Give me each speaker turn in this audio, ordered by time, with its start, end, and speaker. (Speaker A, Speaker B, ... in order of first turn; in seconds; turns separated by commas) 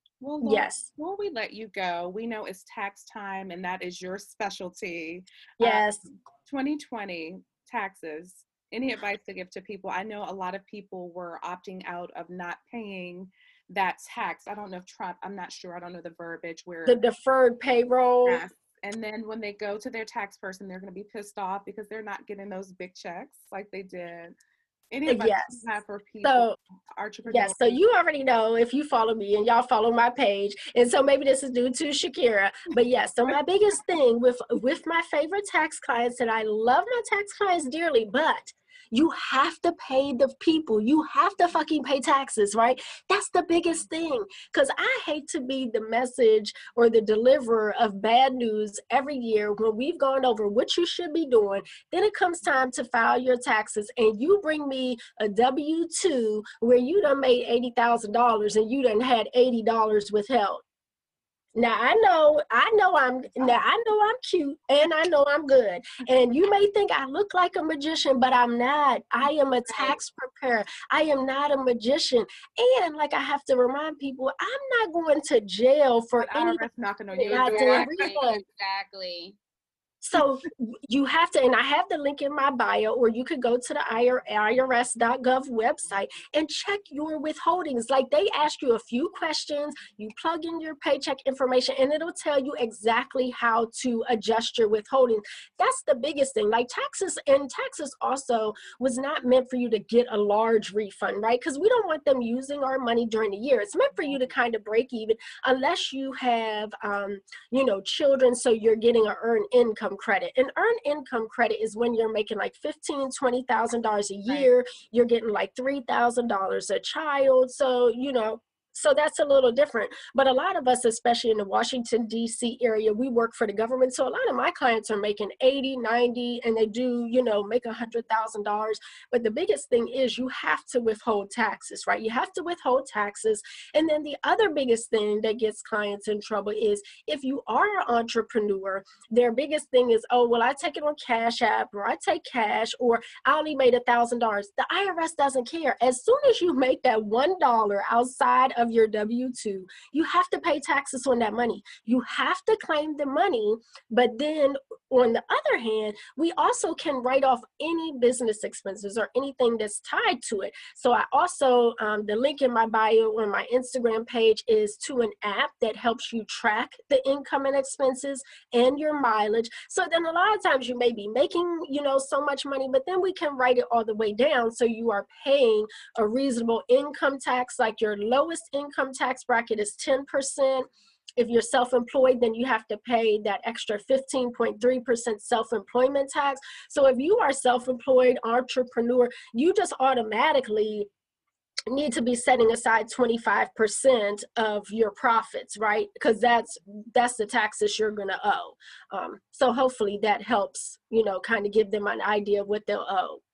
Speaker A: 0.2-5.9, Speaker B: 0.4-0.9, Speaker B: 5.6-6.0, Speaker A: 6.5-17.0, Speaker B: 16.9-18.4, Speaker A: 18.2-24.4, Speaker A: 24.9-27.8, Speaker B: 25.1-25.6, Speaker B: 26.2-26.6, Speaker B: 27.3-60.6, Speaker B: 61.6-78.4, Speaker A: 76.2-78.1, Speaker C: 77.2-79.4, Speaker B: 80.0-180.7, Speaker B: 181.2-190.9, Speaker B: 191.7-203.2